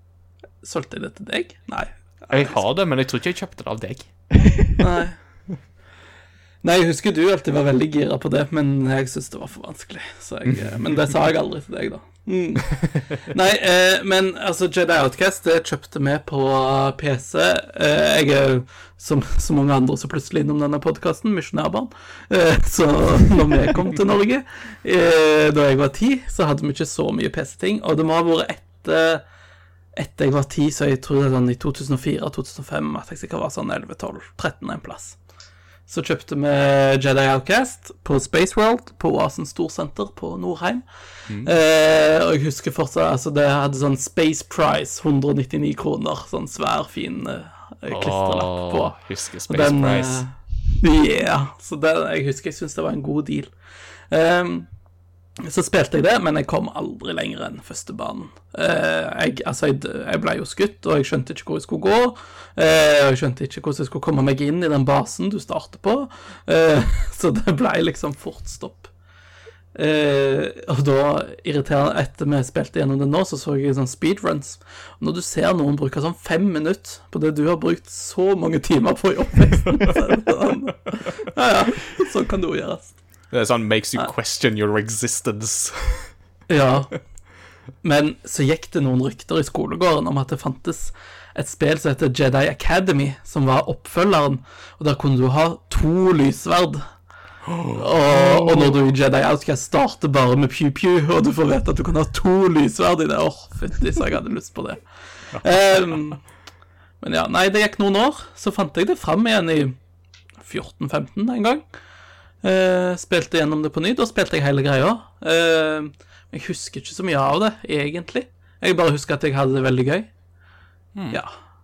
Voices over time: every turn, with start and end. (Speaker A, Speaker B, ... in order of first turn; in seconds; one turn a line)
Speaker A: 0.6-2.6
Speaker B: 2.3-4.1
Speaker A: 4.8-5.2
Speaker A: 6.6-29.2
Speaker A: 29.9-35.2
Speaker A: 35.9-48.9
Speaker B: 47.9-50.2
Speaker A: 49.5-53.5
Speaker A: 54.1-54.7
Speaker A: 55.4-68.9
Speaker A: 69.7-83.0
Speaker B: 83.3-86.1
Speaker A: 86.5-86.9
Speaker A: 87.8-96.8
Speaker B: 97.5-98.7
Speaker A: 97.7-106.2
Speaker A: 107.0-109.8
Speaker A: 110.4-111.7
Speaker A: 112.4-120.1